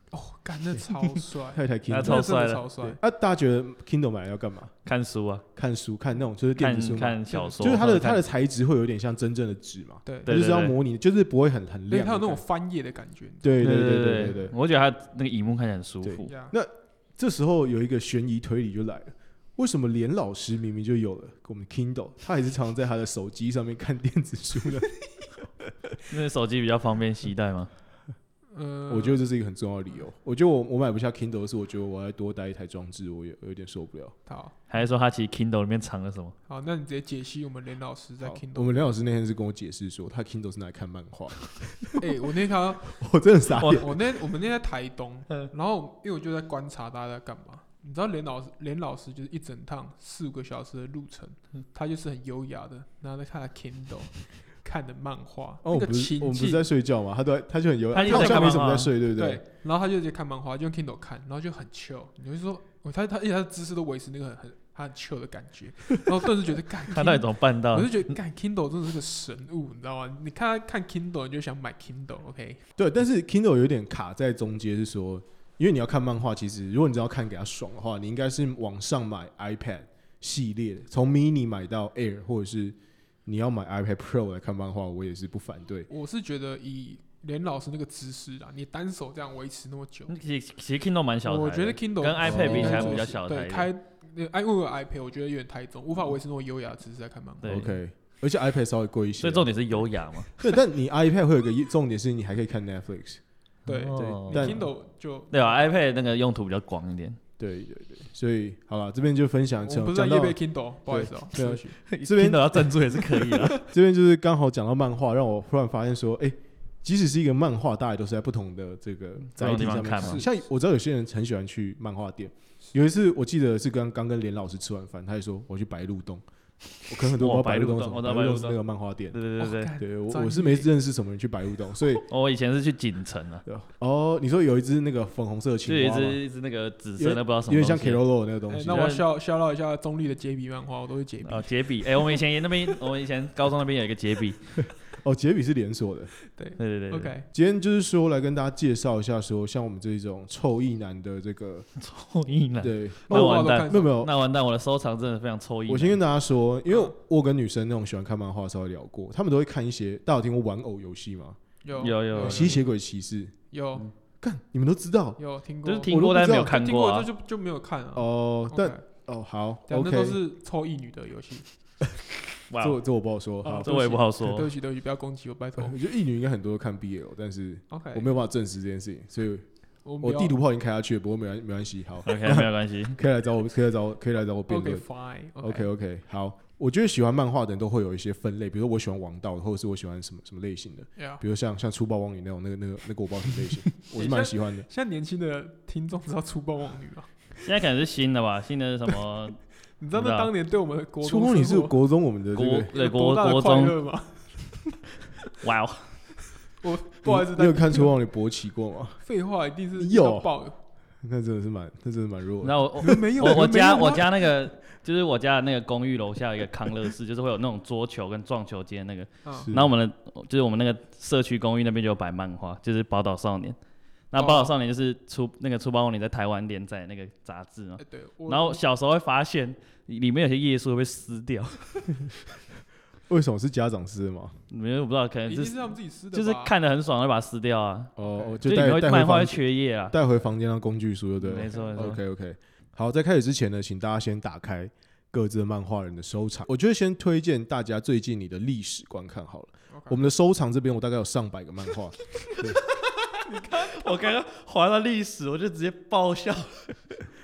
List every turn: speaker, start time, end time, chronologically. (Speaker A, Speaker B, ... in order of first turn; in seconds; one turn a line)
Speaker A: 0.1-3.0
Speaker B: 1.5-4.7
Speaker C: 1.9-2.7
Speaker C: 4.8-5.5
Speaker B: 5.5-12.4
Speaker C: 6.6-8.2
Speaker A: 7.3-7.8
Speaker A: 10.1-10.3
Speaker C: 10.3-10.8
Speaker A: 11.9-13.6
Speaker B: 13.4-14.5
Speaker C: 13.6-16.3
Speaker B: 16.0-25.7
Speaker A: 16.2-16.6
Speaker C: 26.1-27.7
Speaker A: 28.5-29.2
Speaker B: 28.9-34.2
Speaker A: 34.3-34.6
Speaker C: 34.7-36.4
Speaker A: 36.5-39.0
Speaker B: 38.2-42.0
Speaker A: 42.0-43.0
Speaker B: 42.9-44.0
Speaker C: 43.6-43.9
Speaker A: 43.7-56.6
Speaker B: 55.6-59.4
Speaker C: 57.9-58.9
Speaker A: 57.9-72.6
Speaker C: 66.9-68.1
Speaker B: 72.8-85.9
Speaker A: 85.9-90.2
Speaker C: 90.1-93.7
Speaker A: 91.2-97.7
Speaker B: 92.2-93.0
Speaker C: 97.4-97.8
Speaker B: 97.4-99.5
Speaker C: 99.2-100.3
Speaker B: 100.4-103.2
Speaker C: 103.7-104.6
Speaker A: 103.7-105.7
Speaker B: 104.0-104.6
Speaker C: 105.3-107.2
Speaker B: 107.4-112.7
Speaker A: 109.6-111.8
Speaker C: 111.9-113.6
Speaker B: 113.6-126.2
Speaker C: 119.4-120.2
Speaker A: 119.4-120.3
Speaker B: 126.8-129.2
Speaker C: 127.0-128.6
Speaker C: 129.1-129.7
Speaker A: 129.4-130.7
Speaker B: 129.8-132.1
Speaker C: 132.1-133.5
Speaker B: 133.5-136.2
Speaker C: 135.7-138.0
Speaker B: 137.0-138.9
Speaker A: 138.5-142.2
Speaker C: 138.7-139.1
Speaker C: 141.2-144.7
Speaker B: 144.9-146.1
Speaker A: 146.2-147.3
Speaker C: 146.6-147.1
Speaker B: 147.3-151.7
Speaker C: 151.8-156.0
Speaker B: 152.6-154.1
Speaker A: 153.1-153.9
Speaker B: 155.7-161.4
Speaker A: 156.7-156.9
Speaker A: 161.6-162.6
Speaker C: 161.8-162.6
Speaker B: 162.2-163.3
Speaker A: 163.5-163.9
Speaker B: 164.2-165.2
Speaker A: 165.2-168.8
Speaker C: 165.7-167.1
Speaker B: 165.9-166.6
Speaker B: 167.9-170.2
Speaker A: 169.7-171.5
Speaker C: 172.5-172.8
Speaker B: 172.6-173.7
Speaker A: 173.4-175.8
Speaker C: 173.6-174.5
Speaker B: 175.6-179.5
Speaker A: 177.7-178.2
Speaker A: 179.8-180.4
Speaker B: 180.0-184.8
Speaker C: 182.1-183.0
Speaker A: 184.5-185.7
Speaker B: 185.4-194.7
Speaker A: 191.0-191.2
Speaker A: 193.9-197.2
Speaker C: 197.4-200.3
Speaker A: 199.8-201.8
Speaker B: 201.0-202.7
Speaker C: 202.4-203.8
Speaker A: 202.7-204.7
Speaker C: 205.4-206.2
Speaker A: 206.6-207.9
Speaker B: 207.0-209.0
Speaker A: 209.0-210.6
Speaker B: 209.8-210.3
Speaker B: 211.0-213.4
Speaker C: 212.4-223.6
Speaker A: 212.8-214.3
Speaker A: 219.2-219.5
Speaker B: 219.4-219.7
Speaker C: 224.1-232.2
Speaker A: 224.2-224.5
Speaker A: 227.8-228.6
Speaker B: 233.1-234.4
Speaker C: 234.5-240.0
Speaker A: 235.3-236.5
Speaker B: 238.0-252.6
Speaker A: 238.1-238.4
Speaker C: 241.2-242.0
Speaker A: 241.4-241.8
Speaker A: 249.7-250.1
Speaker C: 253.0-257.0
Speaker A: 253.2-253.9